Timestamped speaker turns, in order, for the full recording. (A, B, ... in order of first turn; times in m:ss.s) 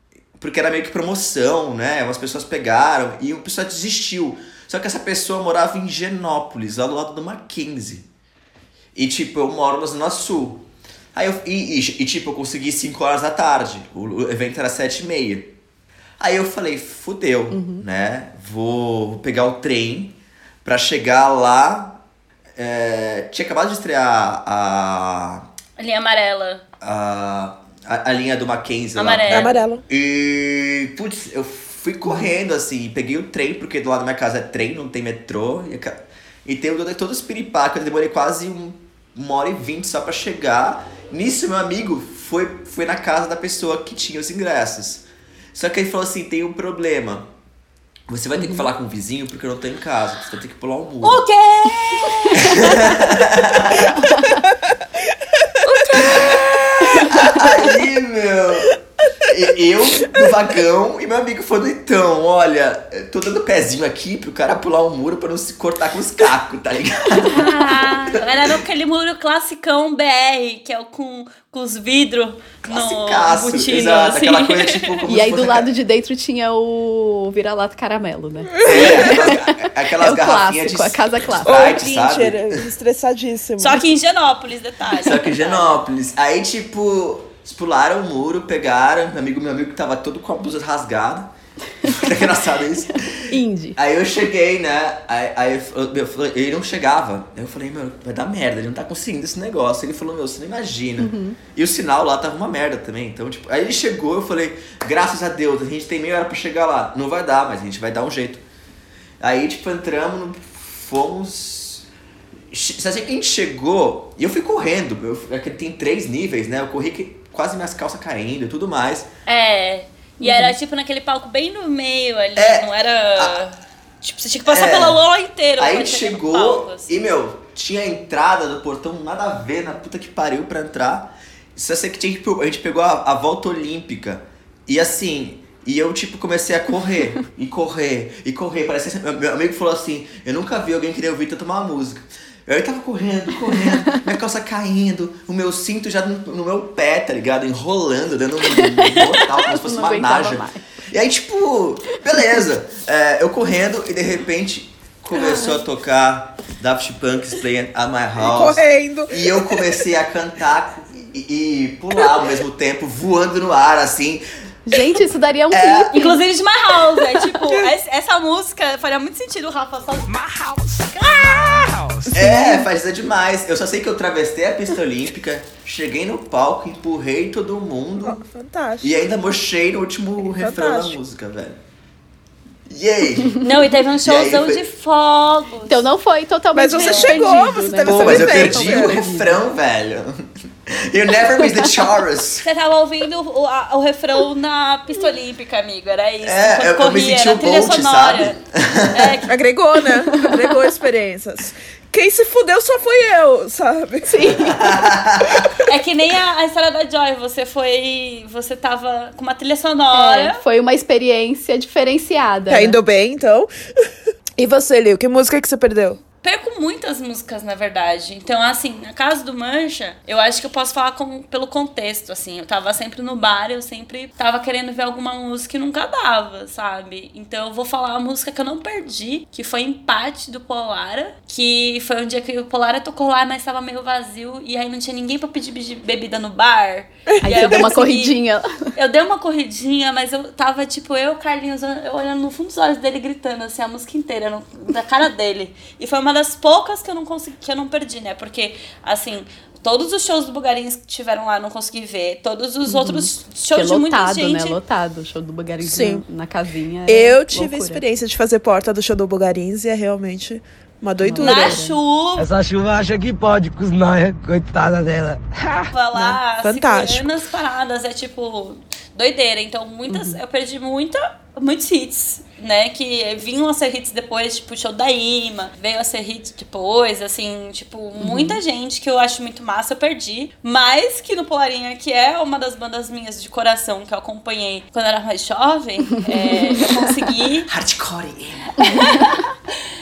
0:00.4-0:08.1 A
0:09.0-0:15.5 A
0:16.2-0:22.0 A
0:17.5-0:17.8 B
0:22.6-0:25.5 A
0:25.8-0:26.6 C
0:26.8-0:47.3 A
0:29.0-0:29.6 C
0:29.3-0:29.8 D
0:48.1-0:51.2 A
0:51.0-0:52.6 C
0:52.3-0:54.1 A
0:55.6-0:56.5 C
0:55.9-1:07.6 A
0:56.4-0:56.9 D
1:07.3-1:15.0 C
1:12.6-1:15.7 A
1:15.1-1:21.8 B
1:18.6-1:22.6 A
1:21.4-1:23.8 D
1:23.6-1:25.8 C
1:25.0-1:31.3 A
1:31.8-1:48.4 A
1:33.3-1:33.8 B
1:41.0-1:41.4 B
1:49.2-1:51.9 A
1:52.5-1:59.1 A
1:59.2-2:06.9 C
2:00.2-2:00.6 B
2:02.4-2:03.4 A
2:04.5-2:05.0 A
2:05.6-2:44.2 A
2:28.5-2:30.6 B
2:35.2-2:35.5 B
2:38.2-2:39.7 D
2:44.7-2:46.2 B
2:45.5-2:45.9 A
2:45.9-2:50.1 C
2:50.1-2:52.1 E
2:50.9-2:51.7 C
2:52.1-2:58.2 A
2:52.2-2:52.6 B
2:58.0-2:58.9 D
2:58.8-3:01.6 A
3:00.2-3:01.0 D
3:02.7-3:04.6 A
3:03.4-3:05.9 C
3:05.6-3:09.4 B
3:06.6-3:09.0 D
3:06.7-3:07.3 C
3:07.8-3:12.5 A
3:12.4-3:18.4 C
3:16.2-3:19.3 A
3:18.9-3:19.3 C
3:19.3-3:24.3 D
3:20.2-3:20.6 B
3:24.1-3:24.9 B
3:24.4-3:25.5 A
3:25.6-3:30.4 C
3:29.9-3:32.8 B
3:32.5-3:33.5 D
3:34.4-3:36.0 D
3:36.2-3:58.2 C
3:57.2-3:58.5 B
3:58.8-4:14.6 C
4:12.7-4:17.8 B
4:15.6-4:16.0 D
4:16.9-4:21.6 D
4:21.0-4:21.8 B
4:21.2-4:22.3 C
4:22.2-4:25.2 E
4:25.5-4:27.1 D
4:25.7-4:47.5 C
4:29.9-4:30.2 B
4:38.0-4:38.4 B
4:46.1-4:46.8 B
4:47.5-4:48.6 A
4:48.6-4:49.3 C